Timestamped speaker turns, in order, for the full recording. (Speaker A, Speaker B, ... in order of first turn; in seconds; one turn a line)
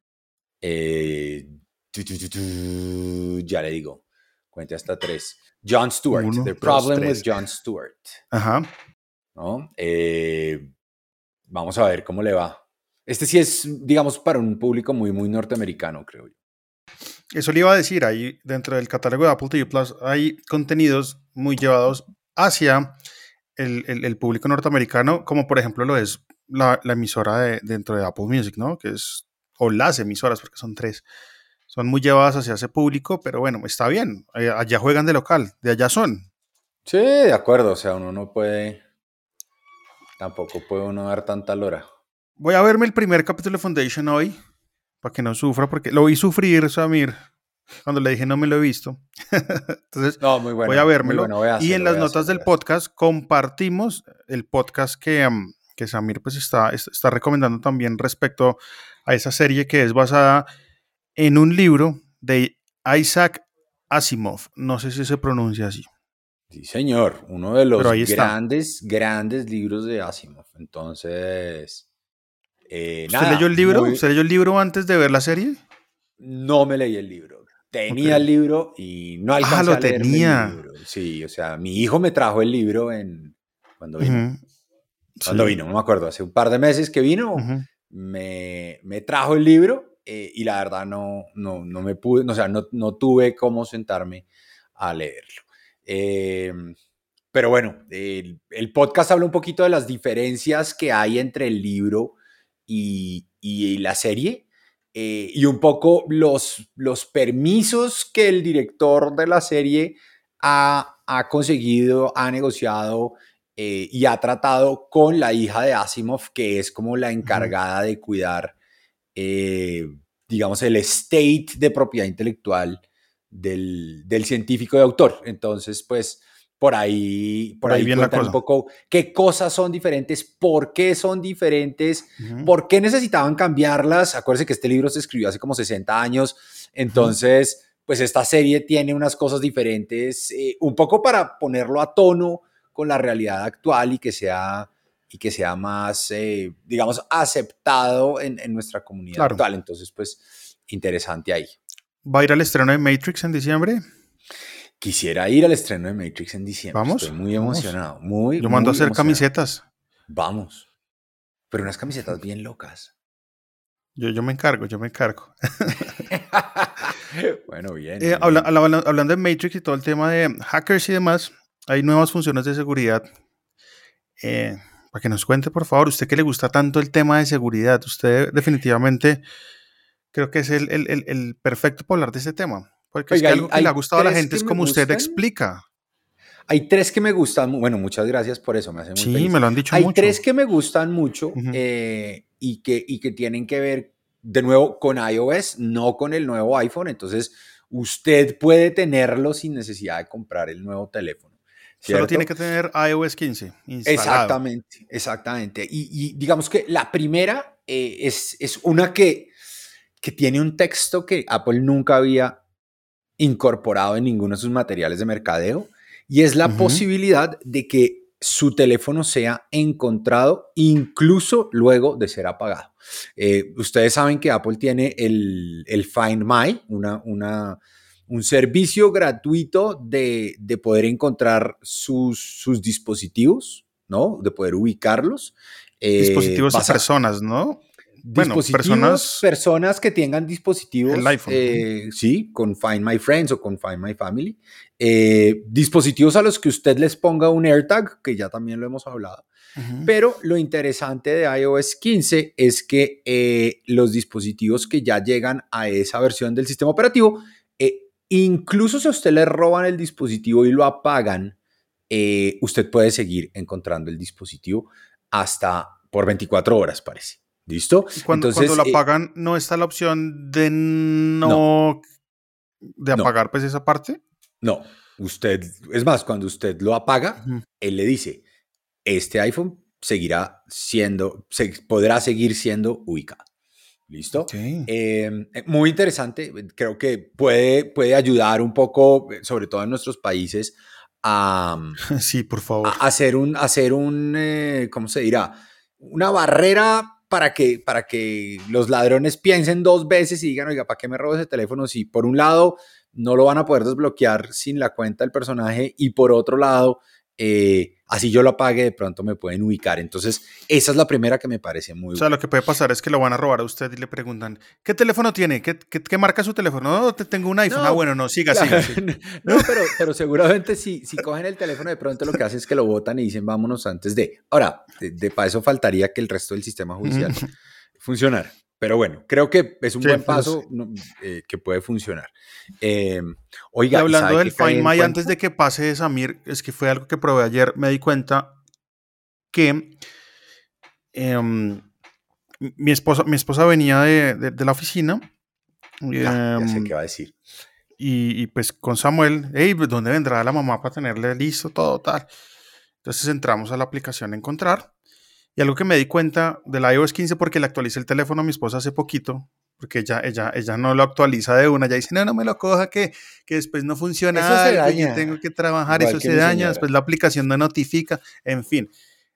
Speaker A: 0.6-8.2
Speaker B: 6.1-7.2
Speaker B: 8.3-8.7
Speaker A: 9.3-10.7
Speaker A: 11.5-16.3
Speaker B: 17.3-23.0
Speaker B: 23.6-31.0
Speaker B: 31.7-36.2
Speaker A: 36.9-38.8
Speaker A: 40.2-41.8
Speaker B: 42.4-44.4
Speaker B: 45.0-47.2
Speaker B: 47.8-60.5
Speaker A: 50.2-52.5
Speaker B: 61.1-65.9
Speaker A: 66.5-71.8
Speaker B: 67.8-68.3
Speaker A: 72.7-74.0
Speaker B: 73.1-75.6
Speaker A: 76.2-84.2
Speaker B: 77.9-78.2
Speaker B: 79.4-80.6
Speaker B: 84.0-84.4
Speaker B: 85.2-85.5
Speaker A: 85.2-94.2
Speaker B: 87.3-87.7
Speaker A: 94.8-96.8
Speaker A: 97.3-102.2
Speaker A: 102.7-118.5
Speaker B: 117.2-117.5
Speaker A: 119.1-151.6
Speaker B: 127.6-128.4
Speaker B: 132.2-132.5
Speaker B: 149.2-149.4
Speaker B: 152.0-153.8
Speaker A: 154.8-159.2
Speaker B: 156.7-157.8
Speaker B: 158.4-159.6
Speaker A: 160.1-160.7
Speaker A: 161.5-162.9
Speaker B: 163.9-166.1
Speaker A: 166.1-168.5
Speaker B: 168.0-173.0
Speaker B: 174.2-179.2
Speaker B: 180.1-185.6
Speaker A: 183.1-185.2
Speaker A: 186.5-201.2
Speaker B: 188.9-190.2
Speaker A: 201.8-202.3
Speaker B: 201.8-204.4
Speaker A: 203.8-209.3
Speaker A: 210.0-212.4
Speaker A: 213.2-236.8
Speaker B: 216.4-216.8
Speaker B: 236.0-237.6
Speaker A: 238.0-249.2
Speaker B: 238.1-239.2
Speaker B: 240.8-241.6
Speaker B: 249.6-249.9
Speaker A: 249.8-261.4
Speaker A: 261.9-268.8
Speaker B: 268.0-271.8
Speaker B: 272.8-274.0
Speaker A: 274.4-278.2
Speaker A: 278.9-283.2
Speaker A: 283.9-291.8
Speaker B: 284.3-284.7
Speaker B: 291.9-292.8
Speaker A: 292.6-312.1
Speaker B: 311.9-319.5
Speaker A: 317.5-327.3
Speaker B: 326.8-327.3
Speaker A: 327.8-335.1
Speaker B: 329.8-330.4
Speaker B: 333.7-338.3
Speaker B: 339.3-339.8
Speaker B: 340.9-341.6
Speaker B: 342.4-345.0
Speaker B: 345.8-346.7
Speaker A: 345.9-347.1
Speaker B: 347.8-352.1
Speaker B: 352.8-354.7
Speaker B: 355.4-368.7
Speaker A: 364.1-365.2
Speaker A: 365.7-366.7